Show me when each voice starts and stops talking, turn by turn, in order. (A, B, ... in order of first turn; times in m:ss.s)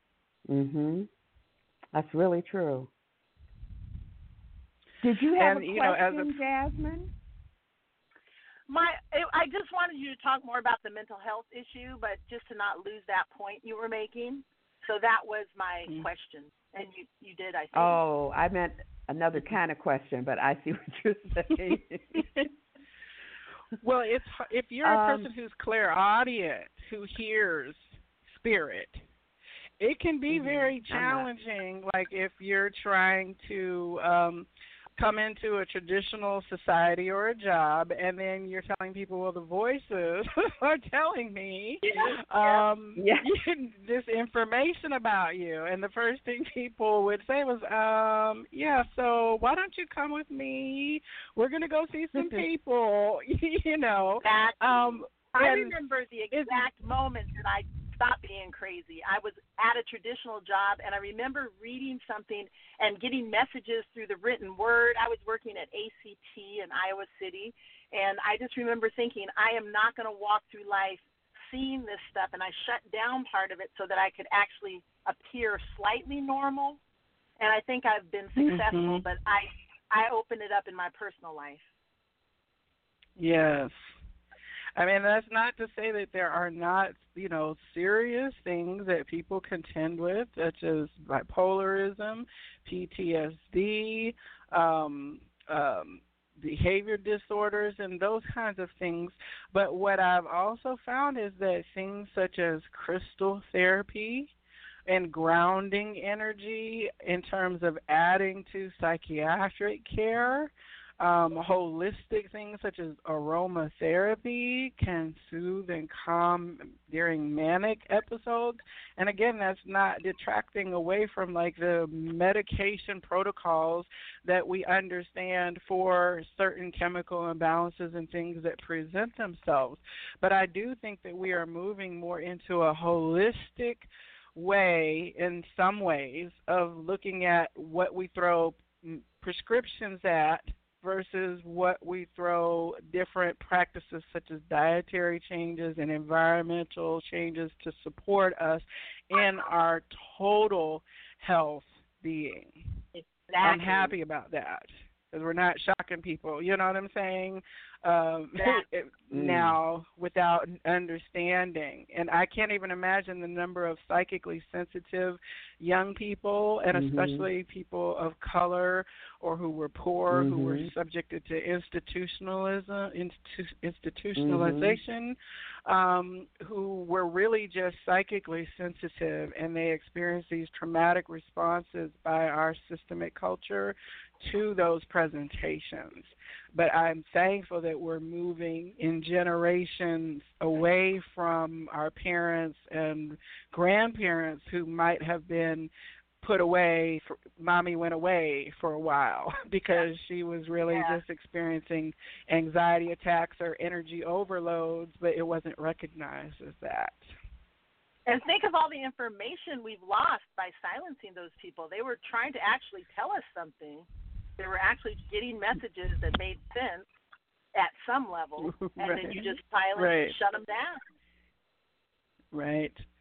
0:00.5-0:01.1 A
0:01.9-0:02.9 A
0:05.0-0:07.1 A
0:05.4-0:06.4 B
0:08.7-0:18.0 C
0:17.7-0:22.4 A
0:23.8-0:29.0 B
0:24.8-0:25.3 A
0:29.8-0:55.8 B
0:30.3-0:31.3 A
0:41.8-0:42.6 C
0:43.0-0:43.3 A
0:54.2-1:16.8 C
0:56.3-0:56.6 B
1:17.4-1:21.7 C
1:18.4-1:19.0 B
1:23.2-1:23.8 B
1:24.8-1:44.3 B
1:44.9-2:32.6 B
2:32.9-2:33.9 C
2:33.4-3:15.7 B
2:38.4-2:38.6 C
2:39.1-2:39.6 A
2:46.7-2:47.3 A
2:50.1-2:50.7 A
2:54.2-2:54.8 A
3:16.2-3:27.1 B
3:20.7-3:21.0 C
3:28.1-3:33.9 C
3:34.4-3:36.9 C
3:37.5-3:40.8 C
3:38.4-3:40.1 B
3:42.3-3:42.9 B